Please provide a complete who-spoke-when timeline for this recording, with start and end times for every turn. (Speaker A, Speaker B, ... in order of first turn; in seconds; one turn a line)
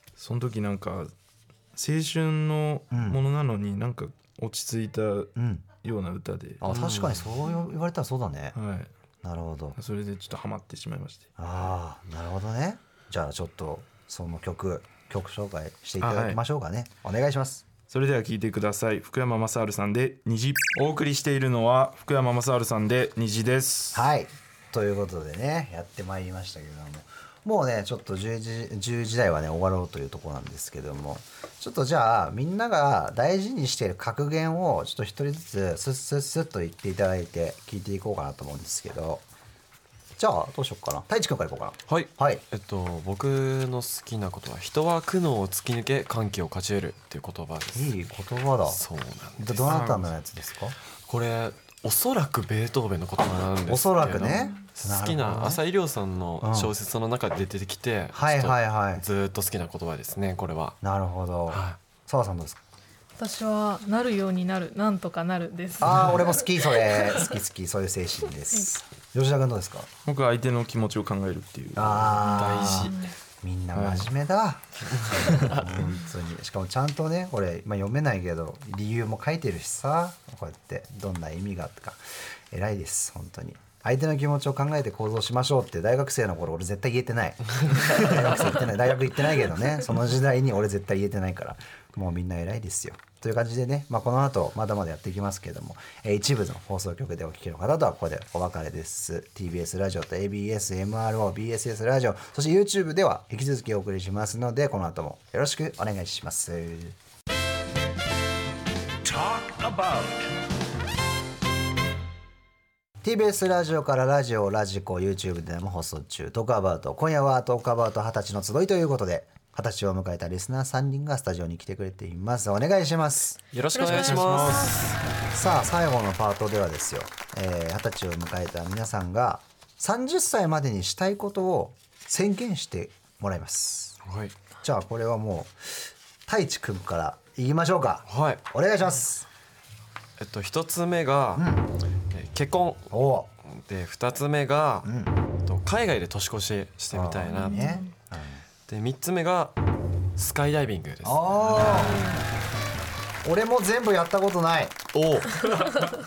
Speaker A: 0.2-1.1
Speaker A: 1.7-6.6
Speaker B: 2.9-3.2
Speaker B: 5.4-5.7
Speaker B: 6.6-8.6
Speaker C: 6.7-7.2
Speaker A: 8.6-8.9
Speaker B: 9.2-9.8
Speaker A: 9.8-11.3
Speaker B: 11.4-17.6
Speaker A: 16.0-16.4
Speaker A: 17.9-24.1
Speaker B: 23.9-39.2
Speaker B: 40.2-42.4
Speaker C: 41.9-47.9
Speaker B: 47.7-48.8
Speaker C: 48.7-49.8
Speaker B: 49.4-50.8
Speaker A: 49.7-50.1
Speaker C: 51.1-60.8
Speaker B: 53.7-55.6
Speaker B: 56.4-56.7
Speaker B: 58.1-59.0
Speaker B: 60.8-62.6
Speaker C: 61.5-61.8
Speaker D: 63.2-67.2
Speaker B: 65.8-69.9
Speaker A: 70.1-72.2
Speaker B: 71.8-107.0
Speaker C: 72.2-73.0
Speaker D: 72.5-73.1
Speaker A: 73.7-74.1
Speaker C: 75.0-75.4
Speaker A: 75.2-75.6
Speaker A: 109.1-110.1
Speaker B: 113.0-123.4
Speaker C: 123.5-125.0
Speaker D: 123.7-124.8
Speaker A: 123.8-124.9
Speaker B: 125.3-134.0
Speaker C: 134.0-134.3
Speaker B: 134.6-139.3
Speaker C: 138.1-138.4
Speaker C: 140.2-141.5
Speaker B: 141.3-141.7
Speaker C: 142.1-142.9
Speaker B: 142.9-143.3
Speaker C: 143.4-144.9
Speaker B: 144.8-145.1
Speaker C: 145.4-147.7
Speaker B: 146.9-148.4
Speaker D: 147.3-147.9
Speaker C: 148.7-149.6
Speaker C: 150.2-152.2
Speaker B: 151.0-152.0
Speaker B: 153.2-154.8
Speaker C: 154.9-155.9